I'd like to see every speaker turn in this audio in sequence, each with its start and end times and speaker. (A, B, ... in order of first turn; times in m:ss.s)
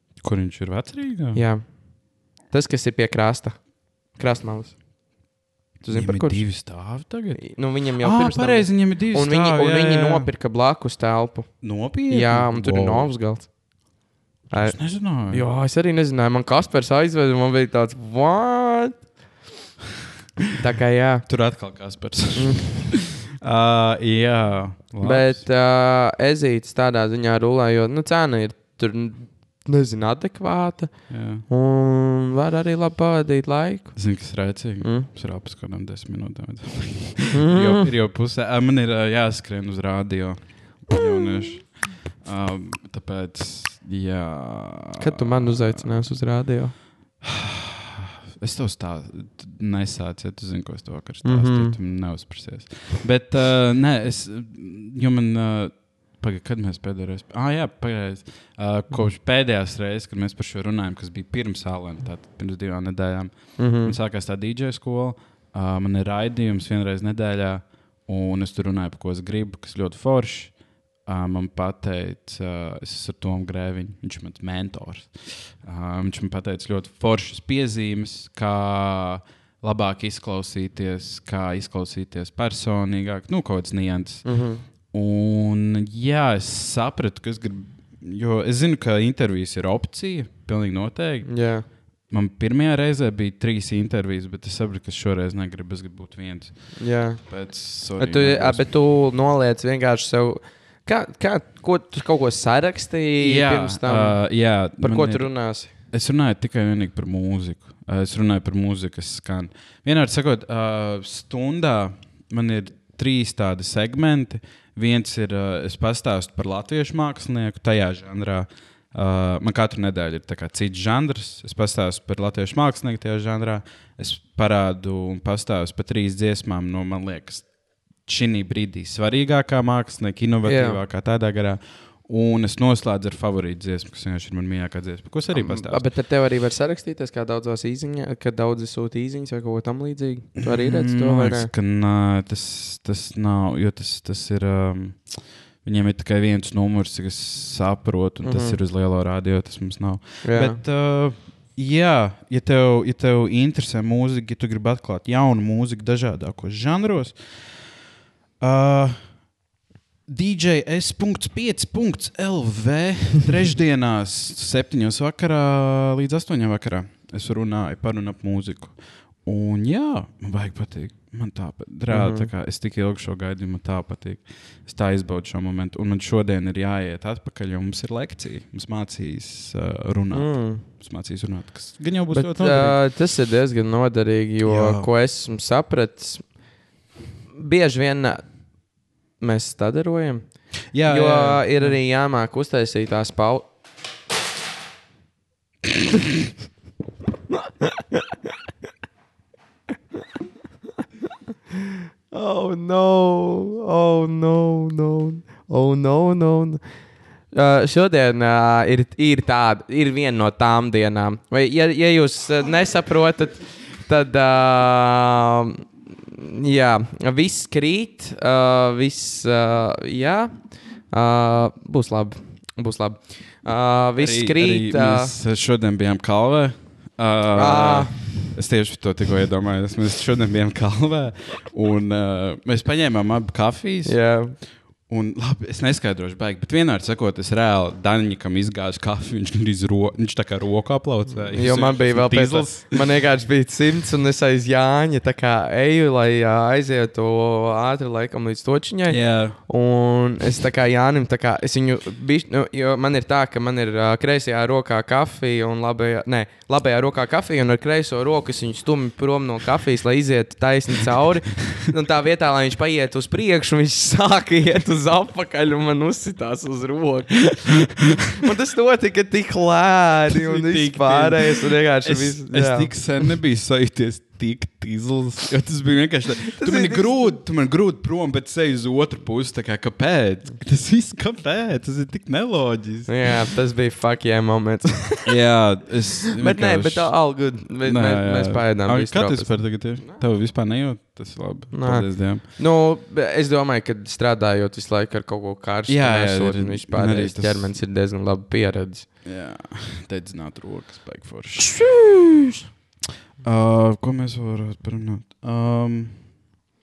0:00.2-0:01.4 A
0:01.3-0:05.3 B
0:05.8-0:14.0 B
0:05.9-0:10.3 A
0:11.6-0:13.2 A
0:14.5-0:19.1 B
0:14.6-0:15.5 A
0:20.6-0:21.5 B
0:21.3-0:25.4 A
0:22.4-0:22.9 B
0:25.0-0:35.1 B
0:31.1-0:31.5 A
0:34.0-0:46.1 A
0:37.3-0:37.9 B
0:40.9-0:41.6 B
0:45.0-0:46.8 B
0:47.2-0:47.8 A
0:48.4-1:38.7 A
0:51.2-0:51.8 B
1:03.6-1:04.0 B
1:24.2-1:24.6 B
1:31.2-1:31.7 B
1:36.8-1:45.7 B
1:43.2-2:15.9 A
2:10.4-2:10.8 B
2:15.3-2:21.5 B
2:20.4-2:37.9 A
2:28.2-2:28.6 B
2:30.2-2:30.6 B
2:38.4-2:39.4 A
2:40.1-3:02.8 A
2:51.9-2:52.3 B
3:00.1-3:00.6 B
3:02.1-3:06.5 B
3:04.4-3:04.9 A
3:07.3-3:13.5 B
3:10.7-3:11.8 A
3:22.1-3:45.2 B
3:44.0-4:02.8 A
3:47.3-3:48.0 B
3:53.8-3:54.4 B
4:01.3-4:32.9 B
4:08.9-4:09.4 A
4:30.1-4:43.1 A
4:36.4-4:37.1 B
4:42.9-4:45.4 B
4:45.1-4:52.2 A
4:46.2-4:50.0 B
4:51.5-4:58.9 B
4:55.7-4:57.6 A
4:59.0-5:01.8 A
5:01.4-5:02.1 B
5:03.2-5:06.0 A